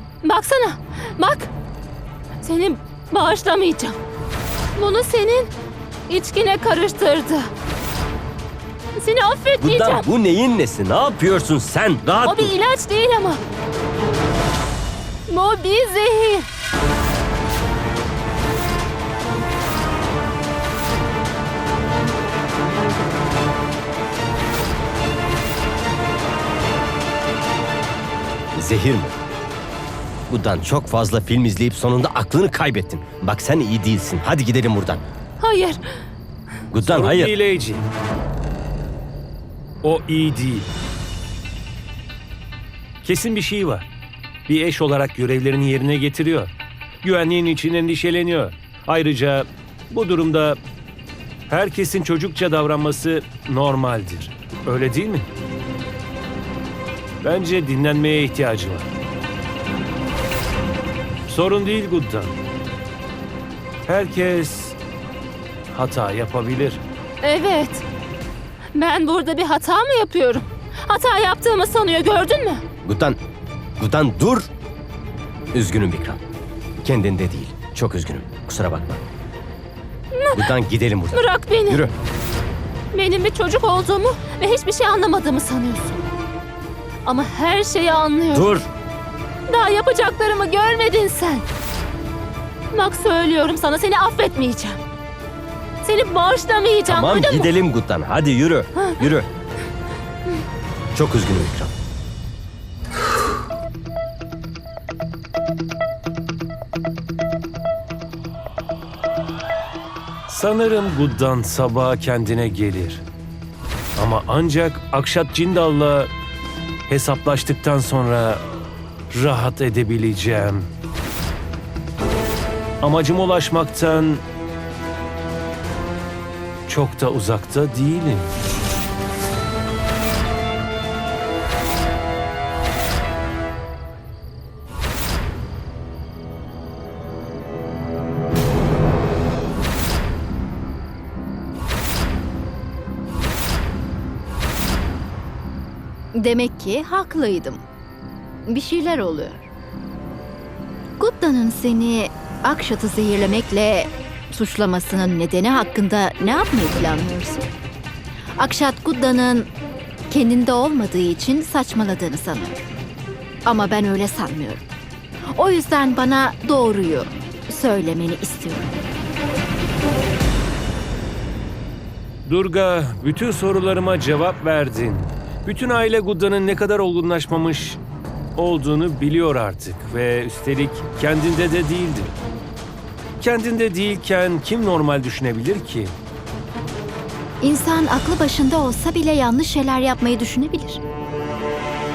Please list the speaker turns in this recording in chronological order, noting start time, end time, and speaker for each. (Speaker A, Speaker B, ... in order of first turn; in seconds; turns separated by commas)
Speaker A: 0.2-1.5, Speaker A: 2.4-4.0, Speaker A: 4.8-5.5, Speaker A: 6.1-7.5, Speaker A: 9.0-10.1, Speaker B: 9.6-12.5, Speaker A: 12.2-13.4, Speaker A: 15.3-16.5, Speaker B: 28.5-29.1, Speaker B: 30.3-35.0, Speaker A: 35.4-35.8, Speaker B: 36.7-37.3, Speaker C: 36.8-37.8, Speaker C: 39.8-40.7, Speaker C: 43.0-43.9, Speaker C: 44.5-46.5, Speaker C: 47.0-50.6, Speaker C: 51.5-55.3, Speaker C: 57.2-58.9, Speaker C: 61.3-62.3, Speaker C: 63.9-64.8, Speaker C: 65.7-66.8, Speaker A: 67.2-67.8, Speaker A: 68.7-72.6, Speaker B: 72.8-73.2, Speaker B: 73.8-74.5, Speaker B: 75.5-76.2, Speaker B: 76.8-79.0, Speaker A: 80.1-80.5, Speaker B: 80.3-81.9, Speaker A: 81.1-81.8, Speaker A: 82.9-86.0, Speaker A: 87.0-88.5, Speaker B: 88.3-88.7, Speaker A: 89.5-91.4, Speaker A: 92.7-94.8, Speaker A: 95.8-97.6, Speaker B: 96.9-99.3, Speaker B: 100.9-101.7, Speaker C: 110.3-113.0, Speaker C: 114.0-116.1, Speaker C: 116.9-118.4, Speaker C: 119.1-120.7, Speaker C: 122.8-124.2, Speaker C: 126.7-128.3, Speaker D: 146.2-147.6, Speaker D: 148.5-149.5, Speaker D: 151.0-157.5, Speaker D: 158.4-159.5, Speaker D: 160.1-162.6, Speaker D: 163.4-164.6, Speaker D: 165.3-168.8, Speaker C: 172.2-177.8, Speaker C: 178.3-182.1, Speaker C: 183.2-185.9, Speaker D: 187.4-190.8